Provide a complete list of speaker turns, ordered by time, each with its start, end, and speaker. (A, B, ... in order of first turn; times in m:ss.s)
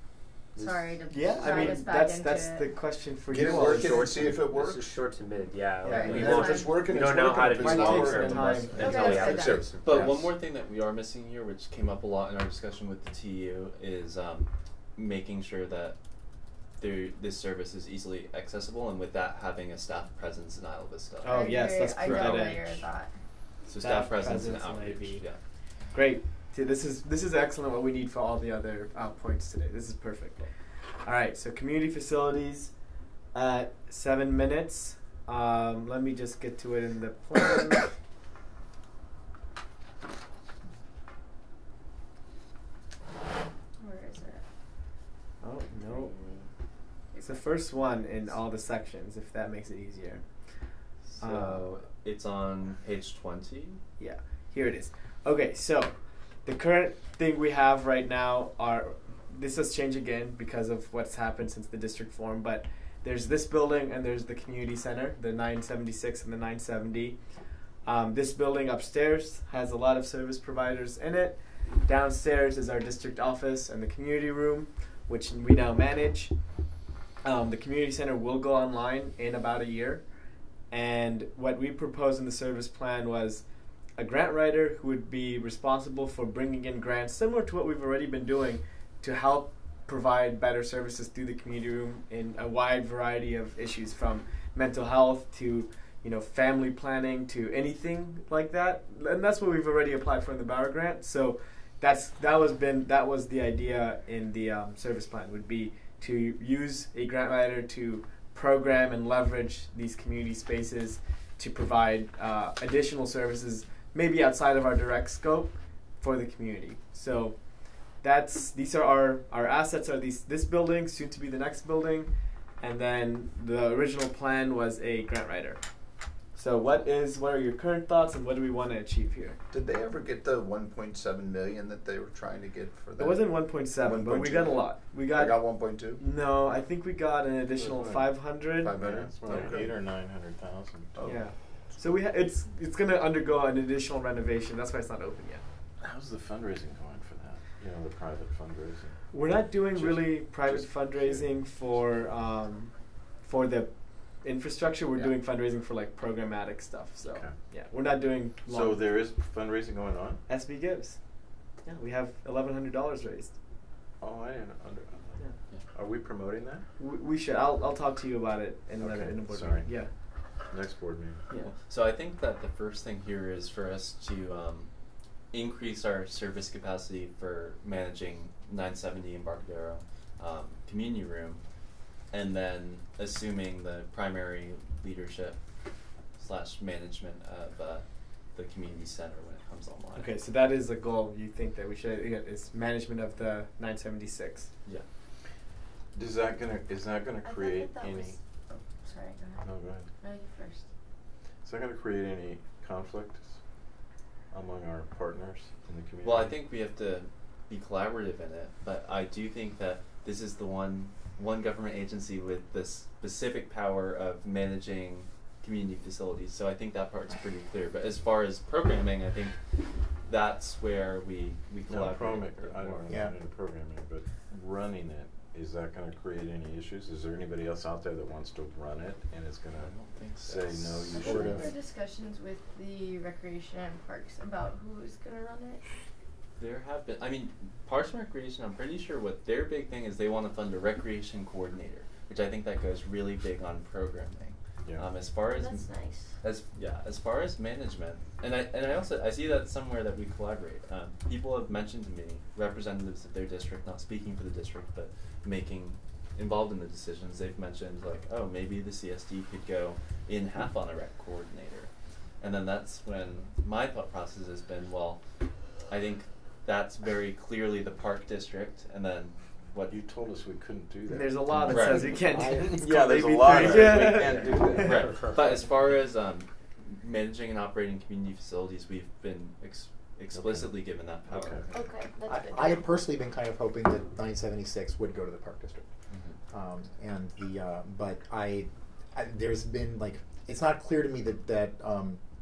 0:00.6-0:02.7 A
0:00.6-0:01.7 B
0:01.1-0:04.1 C
0:03.3-0:05.0 D
0:03.3-0:10.1 B
0:05.8-0:06.3 C
0:05.9-0:06.8 A
0:05.9-0:10.3 D
0:07.6-0:09.0 C
0:08.7-0:22.9 E
0:08.8-0:09.6 A
0:21.2-0:22.6 C
0:21.3-0:23.1 A
0:23.6-0:25.4 E
0:23.8-0:37.9 C
0:43.8-0:44.4 A
0:45.4-0:46.1 C
0:47.1-0:47.6 A
0:47.2-0:51.7 C
0:51.1-0:53.8 E
0:54.0-1:16.6 C
1:17.2-2:09.4 C
2:09.5-2:16.0 D
2:13.0-2:18.8 C
2:17.5-2:21.4 F
2:18.5-2:19.9 D
2:19.3-2:19.5 C
2:21.0-2:22.0 D
2:21.0-2:25.4 C
2:25.8-2:32.1 F
2:29.1-2:38.8 C
2:37.0-2:37.4 F
2:38.4-2:40.2 F
2:40.2-2:43.4 C
2:44.0-2:46.7 F
2:46.8-2:49.9 C
2:48.8-2:51.3 F
2:51.4-3:10.1 E
3:09.9-3:14.5 C
3:15.9-3:18.2 F
3:17.2-3:20.7 A
3:19.4-3:19.9 F
3:21.4-3:23.5 F
3:24.3-3:26.4 F
3:26.0-3:43.0 E
3:41.7-3:51.5 F
3:42.9-3:43.2 G
3:49.6-3:49.9 E
3:50.2-3:51.5 G
3:51.0-3:55.6 A
3:56.4-4:29.8 E
4:04.6-4:04.9 F
4:05.3-4:06.2 A
4:29.7-4:35.4 F
4:30.9-4:34.8 C
4:31.5-4:31.9 E
4:33.4-4:33.7 E
4:34.6-4:41.7 E
4:40.1-4:41.5 F
4:41.5-4:42.7 A
4:42.1-4:45.7 G
4:45.9-4:46.2 E
4:46.3-4:52.0 G